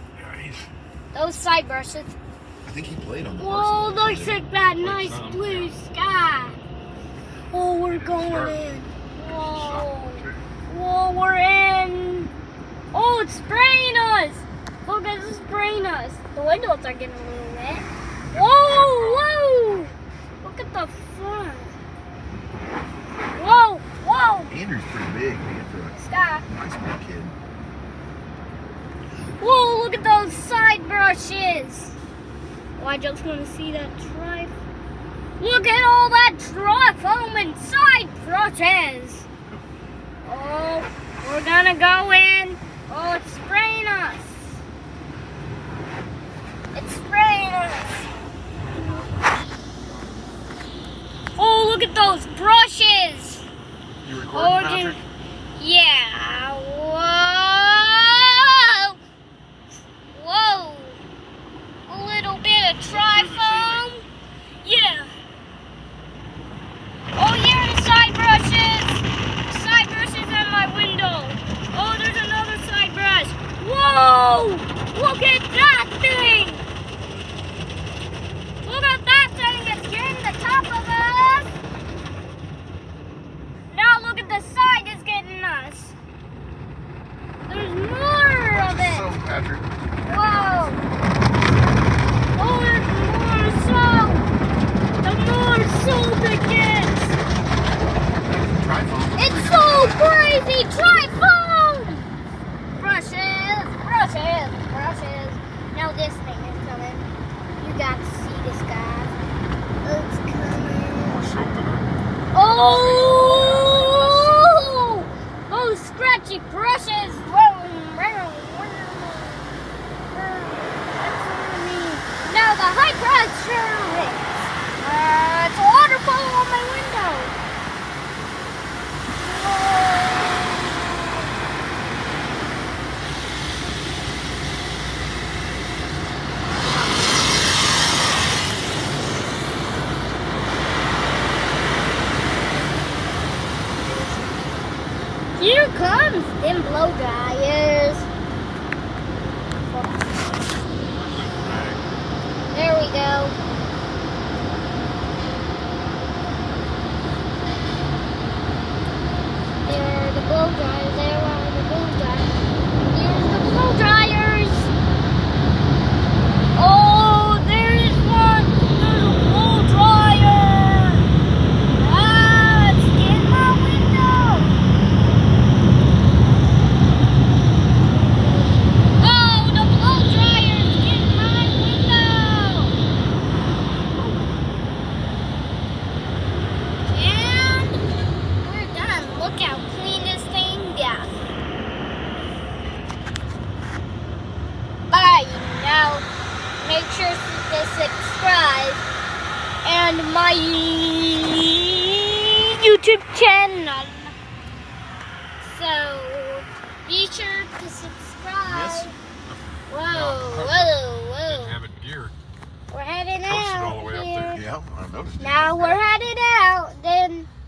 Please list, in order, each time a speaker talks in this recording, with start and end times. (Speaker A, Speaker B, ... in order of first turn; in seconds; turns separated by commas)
Speaker A: 0.2-0.5, Speaker B: 1.1-2.1, Speaker C: 2.6-4.5, Speaker B: 3.4-6.5, Speaker A: 4.8-5.8, Speaker B: 7.5-12.3, Speaker A: 7.9-8.6, Speaker A: 9.2-10.0, Speaker B: 12.9-21.7, Speaker A: 18.3-19.2, Speaker B: 23.3-24.5, Speaker C: 24.5-27.4, Speaker B: 25.9-26.5, Speaker B: 29.3-32.0, Speaker B: 32.8-34.5, Speaker B: 35.4-39.3, Speaker B: 40.2-44.6, Speaker B: 46.7-48.1, Speaker B: 51.4-53.5, Speaker A: 54.0-55.0, Speaker B: 54.1-55.0, Speaker B: 55.6-59.0, Speaker B: 60.1-61.0, Speaker B: 61.9-64.0, Speaker A: 62.9-63.9, Speaker B: 64.6-65.1, Speaker B: 67.1-76.6, Speaker B: 78.6-81.5, Speaker B: 83.7-85.9, Speaker B: 87.5-89.2, Speaker C: 88.5-89.7, Speaker B: 90.0-90.8, Speaker B: 92.3-94.3, Speaker B: 95.0-97.2, Speaker C: 98.3-100.1, Speaker B: 99.1-102.1, Speaker B: 102.8-109.1, Speaker B: 109.8-111.4, Speaker A: 111.1-114.3, Speaker B: 112.3-119.5, Speaker B: 120.1-127.3, Speaker B: 129.2-131.2, Speaker B: 143.8-144.4, Speaker B: 145.3-148.1, Speaker B: 149.6-150.2, Speaker A: 151.0-151.8, Speaker B: 152.5-153.3, Speaker B: 159.6-164.7, Speaker B: 166.5-171.1, Speaker B: 171.8-174.5, Speaker B: 179.0-182.8, Speaker B: 183.9-184.3, Speaker B: 186.8-187.8, Speaker B: 188.4-191.1, Speaker B: 194.9-196.1, Speaker B: 196.6-198.8, Speaker B: 199.6-204.1, Speaker B: 205.4-208.9, Speaker B: 209.7-211.6, Speaker A: 209.9-212.1, Speaker B: 212.7-214.5, Speaker A: 213.2-214.4, Speaker C: 214.3-215.8, Speaker B: 215.2-217.3